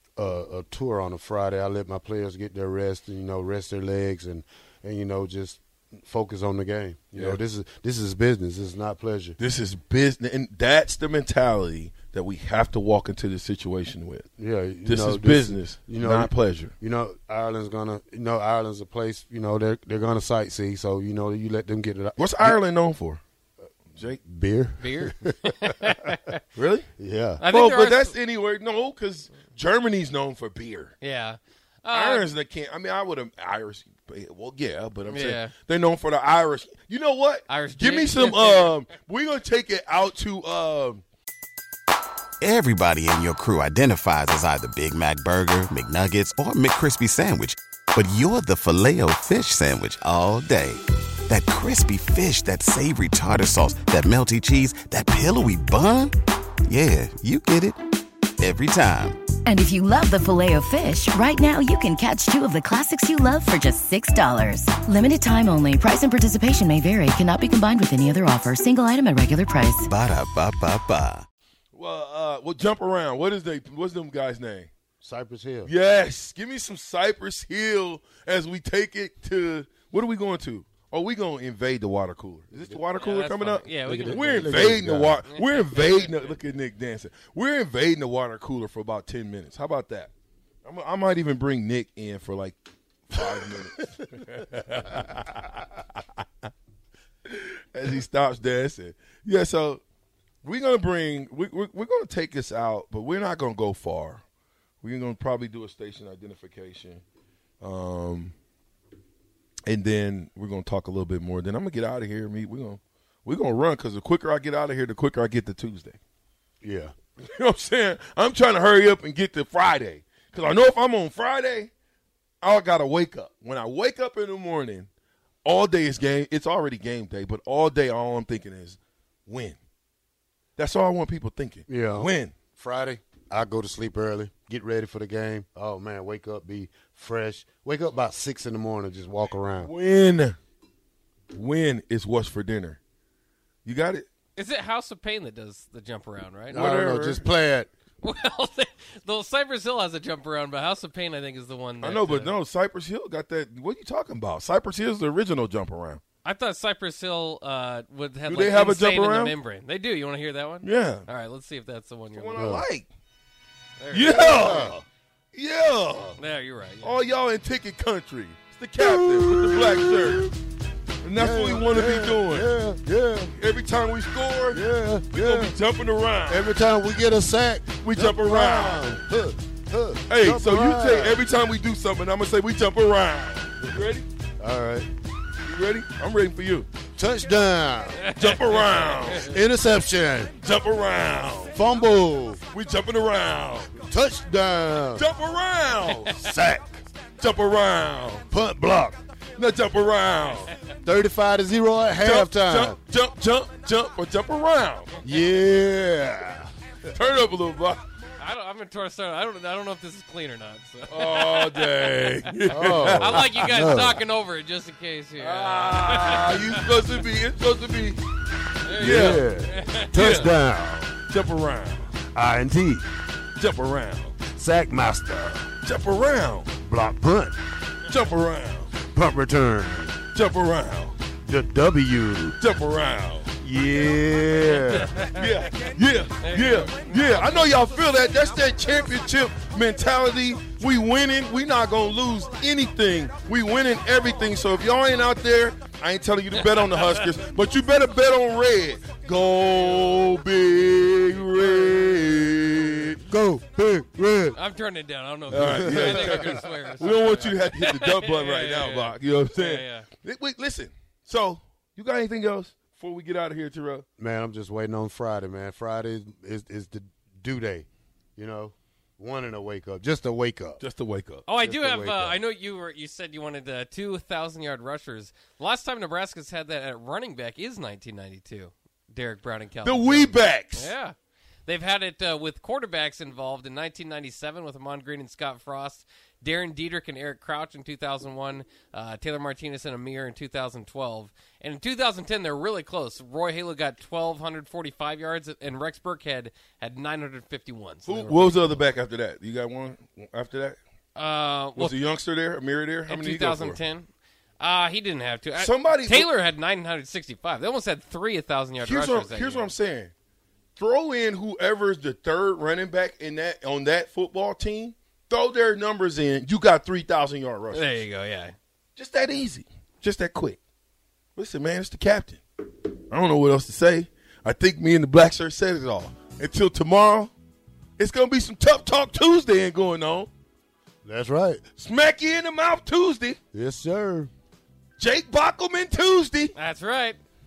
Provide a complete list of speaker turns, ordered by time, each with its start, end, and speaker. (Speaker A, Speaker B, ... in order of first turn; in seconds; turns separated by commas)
Speaker A: 0.2-9.4, Speaker B: 7.2-7.4, Speaker B: 9.4-14.3, Speaker A: 14.4-22.6, Speaker B: 14.9-16.7, Speaker B: 22.2-23.2, Speaker A: 24.2-25.4, Speaker C: 24.8-26.4, Speaker B: 26.6-26.9, Speaker A: 27.0-27.4, Speaker C: 27.4-28.2, Speaker B: 27.5-31.0, Speaker C: 31.0-32.3, Speaker B: 31.9-41.0, Speaker C: 35.1-35.5, Speaker C: 37.5-38.7, Speaker D: 42.4-56.1, Speaker D: 56.7-57.8, Speaker D: 58.4-59.2, Speaker E: 59.5-69.9, Speaker D: 69.8-71.3, Speaker B: 71.7-74.7, Speaker A: 75.0-75.7, Speaker B: 75.7-90.1, Speaker A: 82.5-82.8, Speaker C: 83.0-86.3, Speaker A: 83.9-85.2, Speaker B: 90.7-96.0, Speaker B: 97.3-99.8, Speaker B: 100.4-104.2, Speaker B: 104.8-107.0, Speaker B: 107.6-108.3, Speaker B: 109.7-116.0, Speaker A: 116.6-116.9, Speaker B: 117.3-121.7, Speaker B: 122.4-124.9, Speaker B: 125.5-129.6, Speaker B: 130.6-132.3, Speaker A: 131.7-139.7, Speaker B: 139.6-140.4, Speaker B: 141.3-142.8, Speaker B: 143.7-144.1, Speaker C: 144.4-146.6, Speaker B: 146.5-147.2, Speaker A: 146.5-147.7, Speaker C: 148.0-152.3, Speaker B: 151.8-156.0, Speaker C: 156.2-162.5, Speaker B: 158.3-159.3, Speaker B: 160.6-161.1, Speaker B: 162.1-162.9, Speaker A: 162.3-162.7, Speaker C: 163.8-164.6, Speaker B: 163.9-166.2, Speaker A: 164.1-164.8, Speaker C: 166.2-166.9, Speaker B: 166.8-170.3, Speaker A: 168.8-170.3, Speaker B: 171.0-172.5, Speaker A: 171.2-173.3, Speaker B: 173.4-176.5, Speaker A: 174.5-175.6, Speaker A: 176.3-181.2, Speaker B: 177.8-179.0, Speaker B: 180.1-184.1, Speaker A: 184.4-184.9, Speaker B: 185.4-186.7, Speaker A: 187.0-188.0, Speaker C: 188.0-189.3, Speaker B: 188.2-189.4, Speaker A: 189.1-190.3, Speaker B: 190.4-191.6, Speaker A: 191.5-192.4, Speaker B: 192.5-193.7, Speaker A: 193.8-195.1, Speaker B: 194.9-196.3, Speaker A: 196.1-196.8, Speaker B: 197.2-198.2, Speaker A: 198.3-199.0, Speaker B: 199.4-200.5, Speaker A: 200.8-202.8, Speaker B: 202.0-205.0, Speaker A: 205.0-206.5, Speaker B: 206.9-207.9, Speaker C: 208.2-211.7, Speaker B: 210.9-213.5, Speaker A: 212.5-214.0, Speaker C: 212.6-216.6, Speaker B: 215.2-218.0, Speaker C: 218.6-220.3, Speaker A: 218.8-221.0, Speaker B: 218.8-219.3, Speaker B: 221.1-221.9, Speaker A: 222.1-222.9, Speaker B: 223.4-224.2, Speaker A: 224.3-225.5, Speaker B: 225.6-226.5, Speaker A: 226.6-227.4, Speaker B: 227.9-228.7, Speaker A: 228.8-230.0, Speaker B: 230.1-231.0, Speaker A: 231.2-232.4, Speaker B: 232.4-233.3, Speaker A: 233.4-234.9, Speaker C: 234.7-235.2, Speaker B: 235.2-253.0, Speaker C: 236.2-237.1, Speaker C: 246.4-247.0, Speaker A: 253.1-254.4, Speaker C: 254.3-259.9, Speaker A: 255.3-256.2, Speaker B: 255.3-263.9, Speaker A: 264.0-270.6, Speaker B: 270.6-271.3, Speaker C: 271.3-298.7, Speaker A: 271.4-272.2, Speaker B: 279.6-280.7, Speaker B: 297.9-300.6, Speaker C: 300.9-301.8, Speaker B: 301.6-303.6, Speaker C: 302.9-309.5, Speaker B: 305.4-306.1, Speaker B: 308.6-309.9, Speaker B: 310.6-317.8, Speaker C: 317.5-318.4, Speaker B: 318.8-320.4, Speaker B: 321.2-322.2, Speaker B: 322.9-327.1, Speaker B: 327.8-330.1, Speaker A: 330.8-331.4, Speaker B: 331.6-333.2, Speaker A: 333.3-334.1, Speaker B: 334.8-336.3, Speaker C: 336.4-337.0